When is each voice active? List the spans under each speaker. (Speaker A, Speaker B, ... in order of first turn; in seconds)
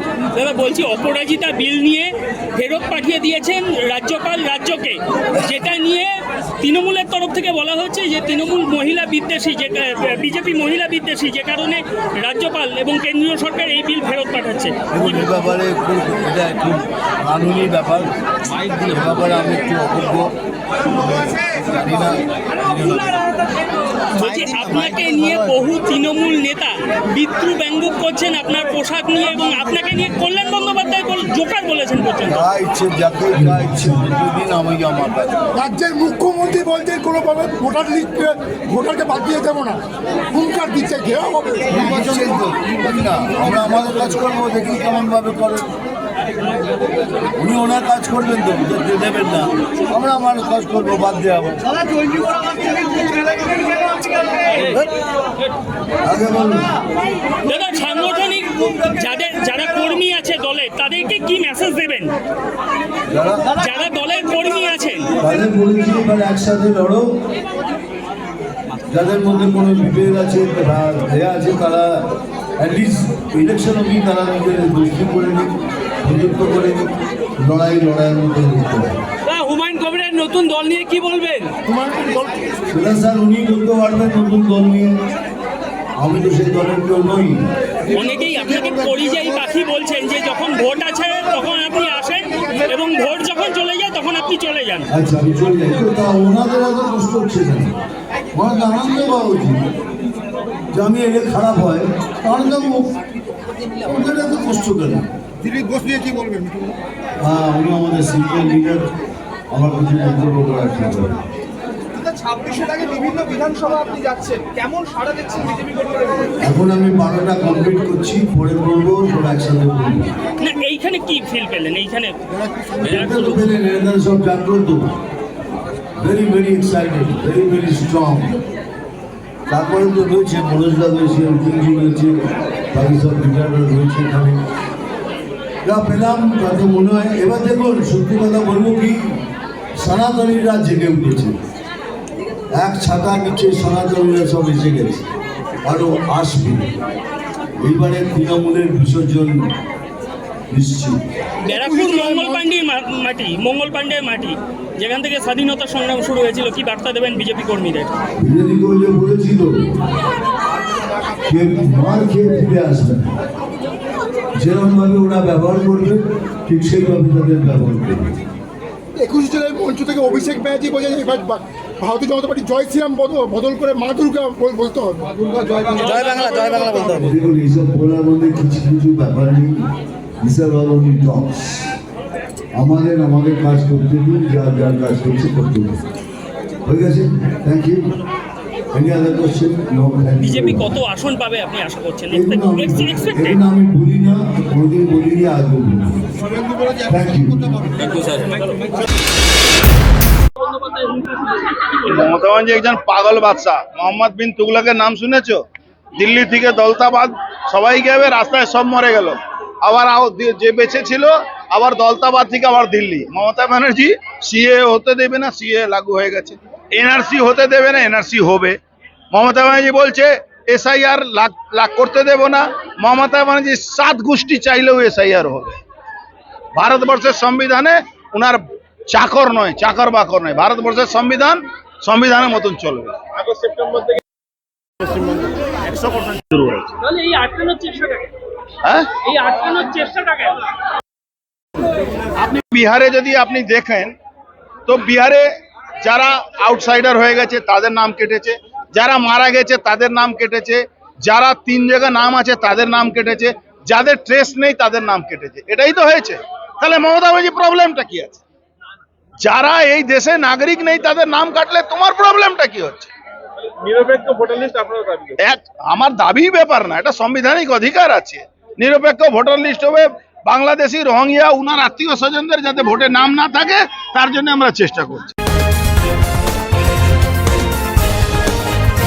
Speaker A: 0.3-15.2, 24.1-32.4, 57.4-62.1, 63.6-65.1, 79.3-81.5, 87.9-94.9, 120.4-122.1, 122.8-123.4, 151.4-158.0, 190.2-193.4, 198.0-198.4, 200.7-201.3, 236.8-238.1, 239.0-240.4
Speaker B: 14.9-20.3, 20.8-23.3, 32.2-35.4, 41.7-45.7, 47.4-51.8, 56.0-56.7, 63.1-63.6, 65.2-67.1, 68.9-72.0, 72.6-75.5, 76.0-79.0, 82.7-85.0, 86.0-87.5, 94.9-97.7, 98.3-99.6, 100.7-102.9, 103.8-105.1, 107.2-108.8, 109.5-111.3, 116.4-120.1, 122.8-124.8, 126.0-128.4, 129.5-134.4, 135.6-139.2, 139.8-141.4, 142.5-145.1, 145.6-146.8, 147.6-149.5, 150.5-151.0, 158.2-159.8, 161.2-163.2, 164.3-168.2, 176.9-179.5, 180.2-181.7, 182.5-185.8, 186.6-187.9, 188.7-190.6, 192.1-196.1, 196.8-197.9
Speaker C: 35.5-39.8, 40.3-41.8, 81.7-82.3, 151.6-152.4, 168.9-176.9
Speaker D: 112.0-116.2
Speaker E: 201.8-205.4, 205.9-218.6, 219.1-225.6, 226.5-233.0, 235.7-236.7, 238.6-238.9, 242.2-243.9, 244.7-245.3, 245.8-258.2, 259.2-262.9, 265.2-275.1